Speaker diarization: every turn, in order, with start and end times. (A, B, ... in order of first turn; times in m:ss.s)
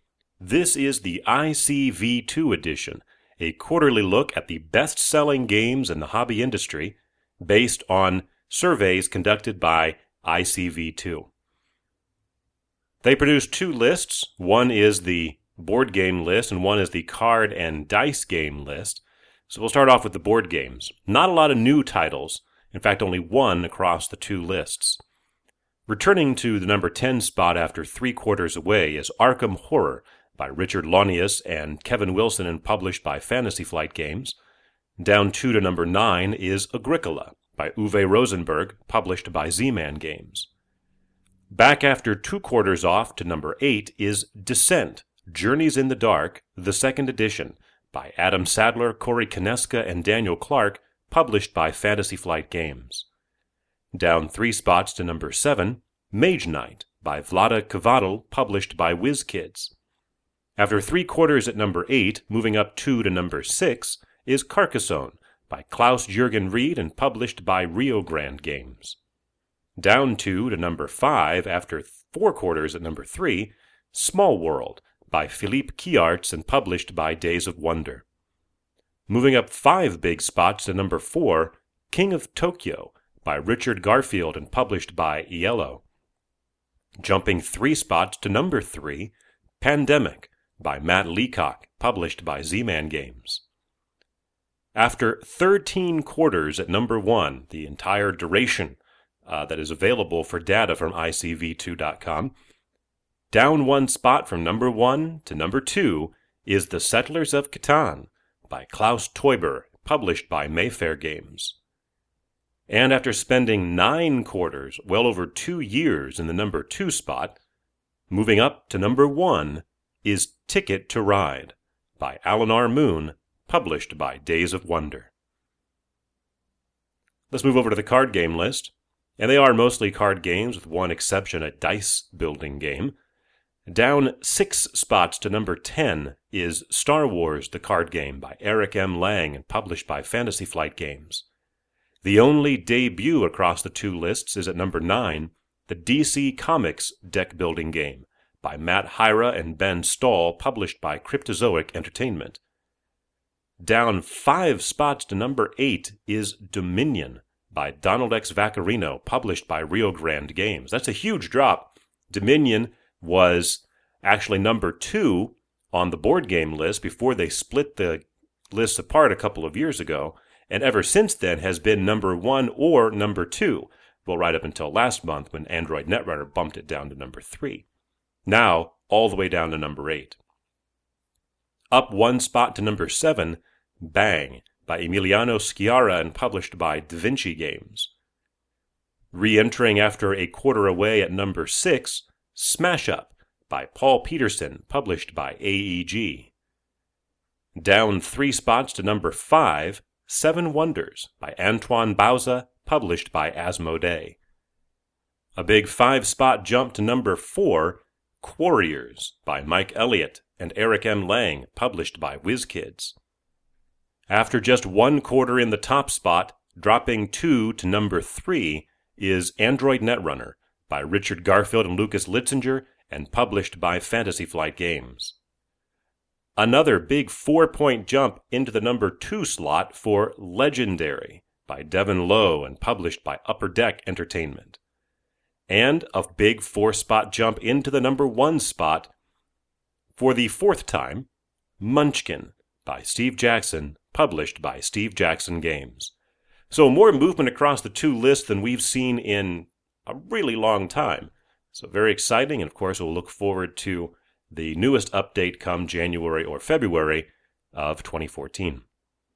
0:00.4-0:11.3 A
0:13.0-0:25.0 A
0:25.9-0:34.4 A
0:35.0-0:40.5 A
0:41.5-0:53.1 A
0:53.9-0:59.7 A
1:00.6-1:09.0 A
1:09.8-1:18.0 A
1:19.1-1:25.8 A
1:27.0-1:33.4 A
1:34.8-1:42.3 A
1:43.3-1:51.6 A
1:52.7-1:57.4 A
1:58.1-2:05.1 A
2:07.3-2:13.0 A
2:13.7-2:21.3 A
2:22.0-2:32.4 A
2:33.6-2:57.6 A
2:58.3-3:00.2 A
3:01.7-3:07.9 A
3:09.1-3:16.3 A
3:17.6-3:24.2 A
3:25.4-3:33.0 A
3:34.1-3:45.2 A
3:46.4-3:54.6 A
3:55.5-3:58.9 A
4:00.0-4:01.1 A
4:01.6-4:05.9 A
4:06.5-4:18.6 A